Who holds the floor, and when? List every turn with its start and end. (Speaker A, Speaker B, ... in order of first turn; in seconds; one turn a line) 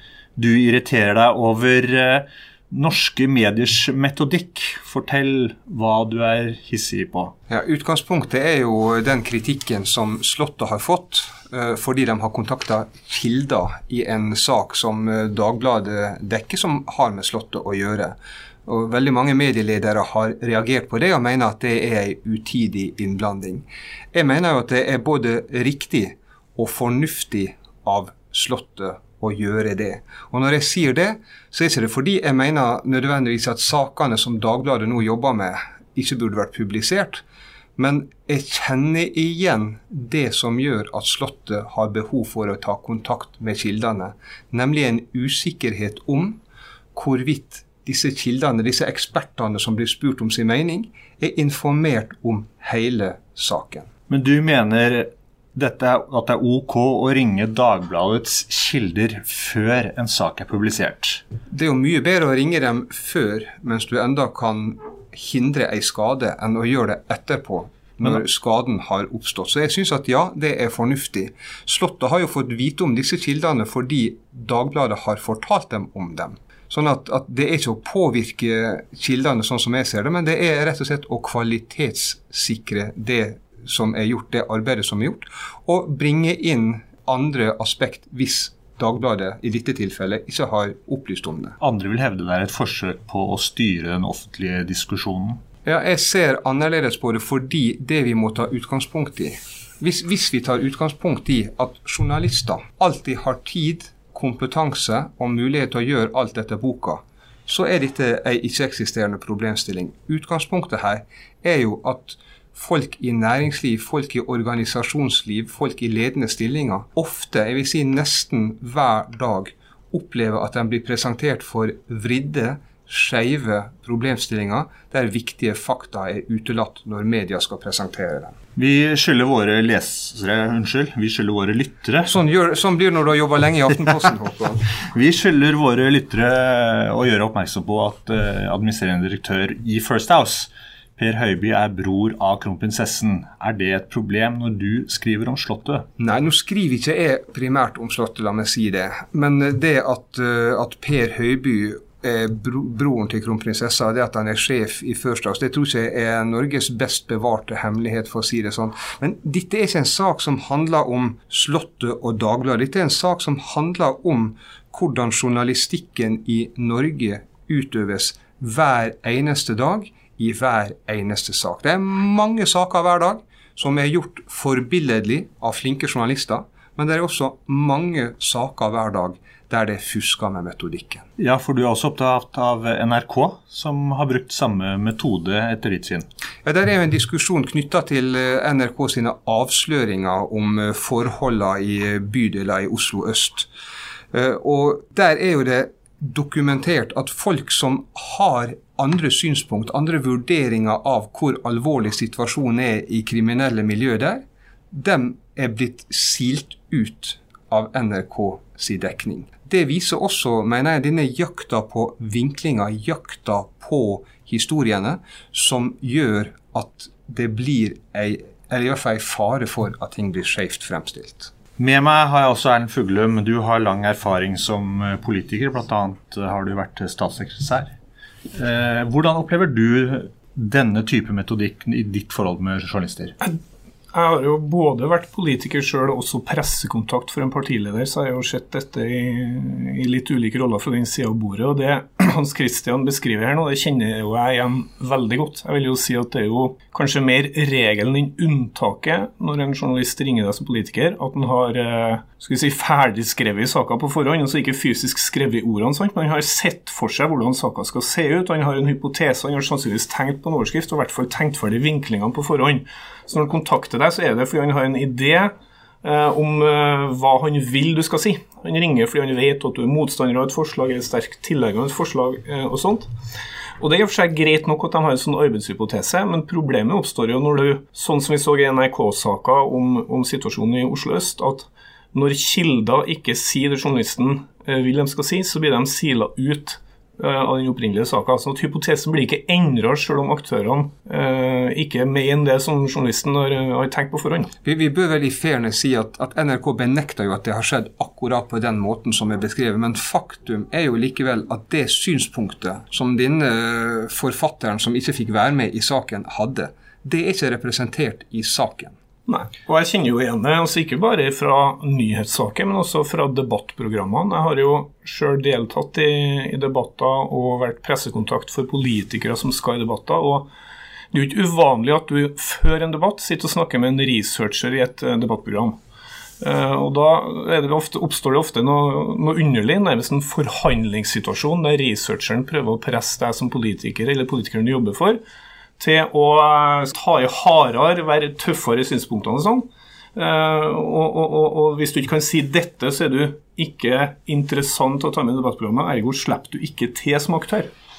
Speaker A: 0.3-7.3
Speaker B: 7.5-37.2
Speaker B: 37.8-46.4
Speaker B: 46.9-53.9
Speaker A: 54.1-61.2
Speaker B: 61.5-91.5
Speaker A: 91.6-95.4
Speaker B: 95.6-128.3
Speaker A: 128.6-132.1
Speaker B: 132.0-134.7
Speaker A: 134.9-145.8
Speaker B: 146.0-181.0
Speaker A: 181.2-186.1
Speaker B: 186.4-193.5
Speaker B: 194.1-221.3
Speaker A: 221.6-227.7
Speaker A: 228.3-233.1
Speaker C: 233.9-265.3
Speaker C: 265.8-272.9
Speaker C: 273.6-294.3
Speaker B: 294.4-308.7
Speaker C: 309.1-320.3
Speaker C: 320.9-325.6
Speaker C: 326.2-335.0
Speaker C: 335.6-347.5